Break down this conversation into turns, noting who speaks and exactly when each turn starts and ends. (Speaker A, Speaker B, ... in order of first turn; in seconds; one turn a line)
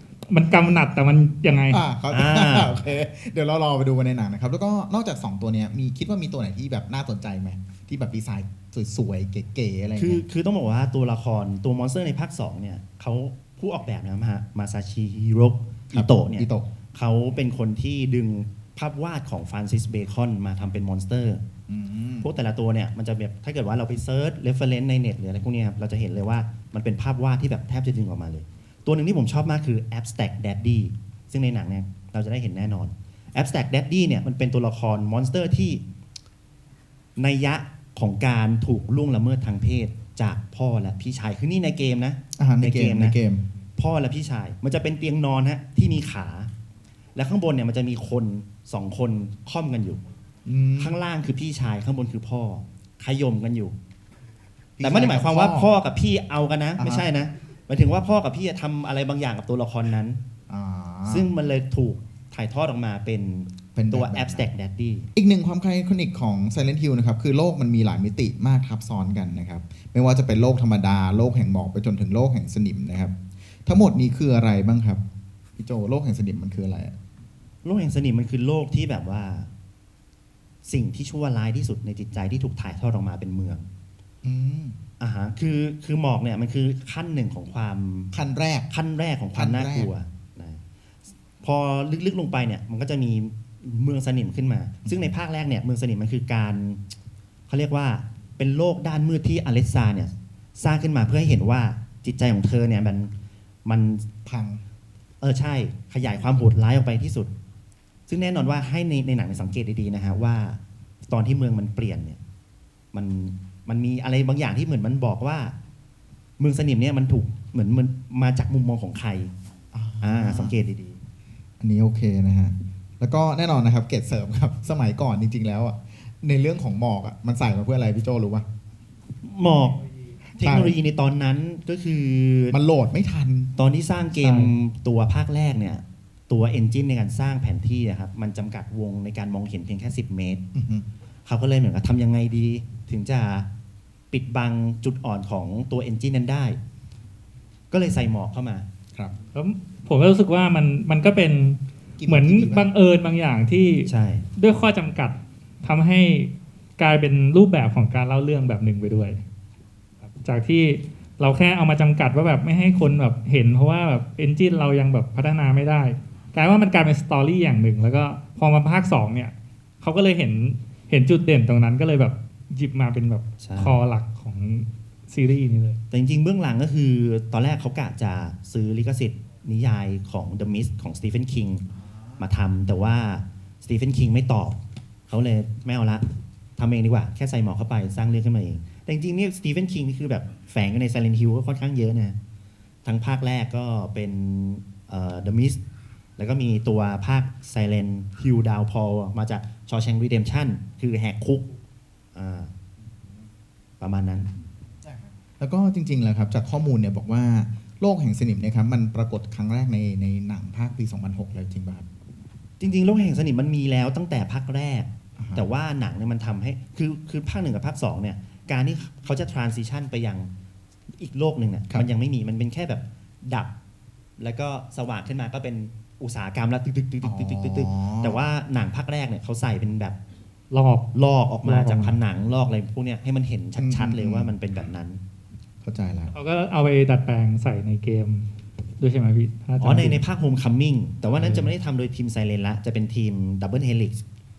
Speaker A: 0.3-1.8
Speaker B: 1.7-10.2
Speaker C: 2.1-2.7
Speaker C: 9.9-21.4
Speaker B: 15.9-16.6
Speaker B: 21.7-22.3
Speaker C: 22.2-35.8
Speaker C: 37.2-43.1
Speaker B: 42.4-43.4
Speaker C: 43.8-46.5
Speaker C: 47.1-50.0
Speaker B: 50.5-50.9
Speaker C: 50.8-53.7
Speaker B: 54.8-55.7
Speaker C: 54.8-60.2
Speaker B: 56.8-57.1
Speaker B: 60.5-61.3
Speaker C: 61.1-65.1
Speaker B: 63.7-64.5
Speaker B: 65.1-73.1
Speaker B: 73.7-75.0
Speaker B: 75.6-76.9
Speaker C: 77.6-79.5
Speaker C: 80.6-83.7
Speaker B: 84.2-84.8
Speaker C: 85.0-88.1
Speaker B: 88.1-88.7
Speaker C: 88.7-90.6
Speaker B: 89.3-89.9
Speaker C: 91.4-96.8
Speaker B: 94.8-95.1
Speaker C: 97.5-103.1
Speaker C: 103.7-104.0
Speaker B: 104.2-104.6
Speaker C: 105.2-107.3
Speaker C: 108.1-112.2
Speaker C: 112.9-115.5
Speaker C: 116.4-119.3
Speaker B: 119.7-120.5
Speaker C: 120.0-121.0
Speaker B: 121.6-128.4
Speaker C: 129.2-129.8
Speaker C: 130.4-132.6
Speaker B: 130.4-130.8
Speaker B: 132.5-133.5
Speaker C: 133.6-140.4
Speaker A: 134.2-134.5
Speaker B: 140.5-140.8
Speaker C: 141.2-143.5
Speaker C: 144.1-146.6
Speaker C: 147.7-148.7
Speaker A: 149.3-159.2
Speaker B: 152.0-152.7
Speaker C: 153.8-154.3
Speaker A: 160.1-175.8
Speaker C: 173.4-173.8
Speaker C: 175.9-181.6
Speaker C: 182.2-184.6
Speaker C: 185.1-186.1
Speaker C: 186.6-192.2
Speaker C: 192.8-195.6
Speaker C: 196.2-201.5
Speaker C: 202.1-202.5
Speaker C: 203.8-204.3
Speaker B: 204.8-211.9
Speaker C: 212.6-220.3
Speaker B: 215.2-215.5
Speaker C: 221.0-223.5
Speaker C: 224.2-230.0
Speaker B: 227.0-228.2
Speaker A: 230.5-230.8
Speaker C: 230.9-235.0
Speaker A: 231.4-231.9
Speaker B: 233.6-234.3
Speaker B: 235.6-236.1
Speaker A: 236.1-240.0
Speaker C: 239.6-244.0
Speaker A: 241.0-241.5